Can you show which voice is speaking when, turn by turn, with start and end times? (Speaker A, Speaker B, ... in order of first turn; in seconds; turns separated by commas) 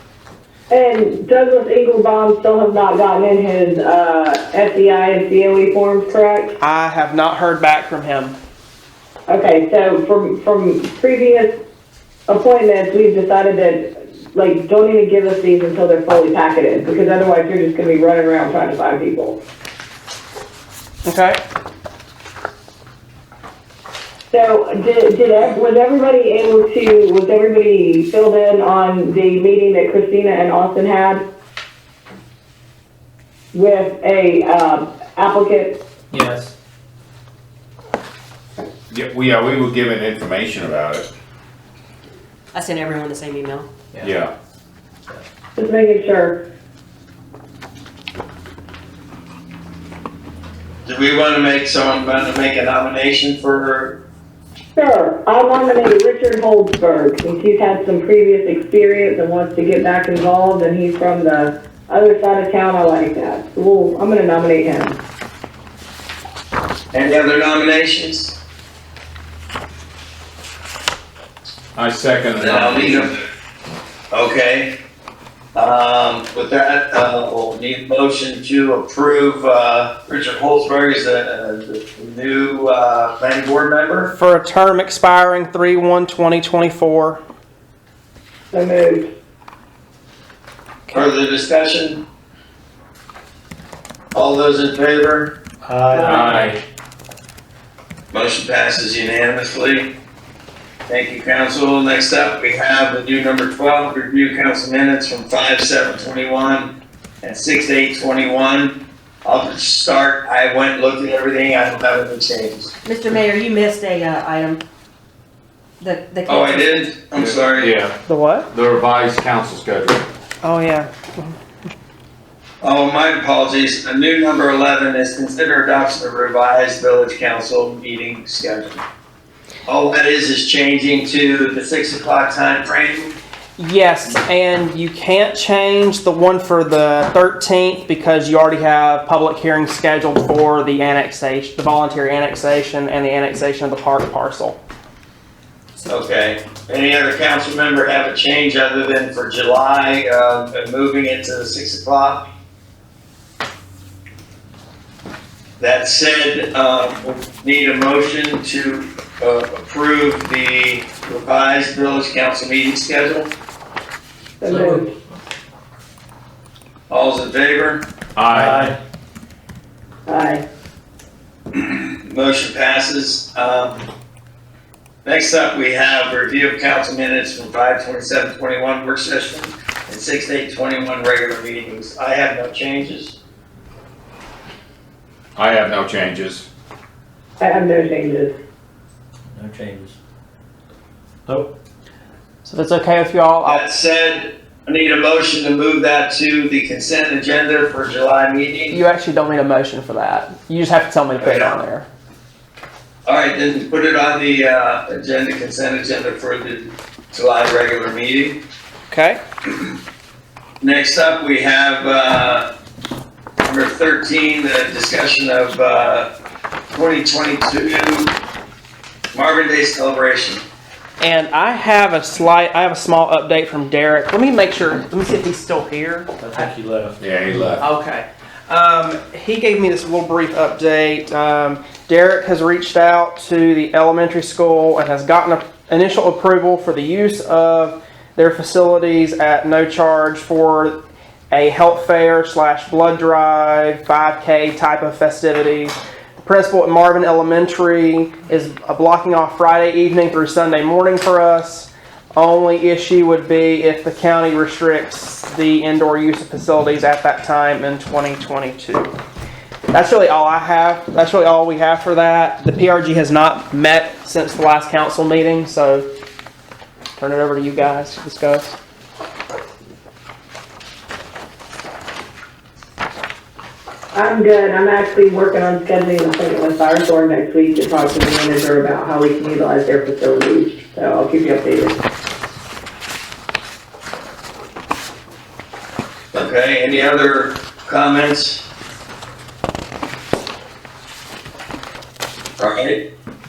Speaker A: 0.7-6.6, Speaker B: 6.6-8.4, Speaker A: 9.3-11.5, Speaker A: 12.3-19.4, Speaker B: 21.1-21.4, Speaker A: 24.3-31.2, Speaker A: 33.5-35.8, Speaker C: 36.1-36.5, Speaker D: 38.9-41.1, Speaker E: 42.5-43.7, Speaker D: 44.0-44.3, Speaker A: 45.6-46.4, Speaker F: 50.9-54.0, Speaker A: 54.8-65.0, Speaker F: 66.9-68.4, Speaker D: 71.8-73.1, Speaker F: 72.3-73.2, Speaker F: 74.1-74.8, Speaker F: 75.5-84.1, Speaker B: 84.2-87.2, Speaker A: 88.5-89.1, Speaker F: 90.9-92.0, Speaker F: 94.2-95.3, Speaker C: 95.6-96.5, Speaker A: 95.9-96.4, Speaker D: 96.1-96.5, Speaker F: 98.1-99.9, Speaker F: 100.9-112.7, Speaker E: 112.8-114.6, Speaker E: 115.8-116.9, Speaker F: 116.3-117.7, Speaker D: 117.1-118.0, Speaker B: 118.1-118.5, Speaker D: 118.5-120.0, Speaker B: 120.4-121.4, Speaker F: 122.6-128.8, Speaker F: 129.7-133.1, Speaker B: 133.6-144.6, Speaker F: 145.9-152.2, Speaker F: 155.6-163.3, Speaker A: 164.4-164.9, Speaker C: 164.5-164.8, Speaker F: 166.9-167.8, Speaker D: 168.2-168.7, Speaker C: 168.3-168.8, Speaker A: 170.1-170.4, Speaker F: 171.5-173.9, Speaker F: 175.1-183.2, Speaker D: 185.4-186.4, Speaker A: 187.4-188.3, Speaker C: 189.3-190.0, Speaker B: 192.4-193.6, Speaker F: 193.4-198.8, Speaker B: 198.7-201.9, Speaker F: 201.2-201.6, Speaker F: 203.1-208.4, Speaker B: 208.9-209.2, Speaker F: 210.6-212.5, Speaker F: 213.4-216.1, Speaker F: 216.7-218.2, Speaker F: 219.1-220.4, Speaker B: 221.0-226.5, Speaker C: 226.2-227.6, Speaker D: 227.0-227.6, Speaker B: 227.6-240.8, Speaker B: 241.3-258.9, Speaker B: 259.7-265.9, Speaker B: 267.0-268.6, Speaker A: 273.9-281.8, Speaker F: 286.1-288.4, Speaker F: 292.4-292.8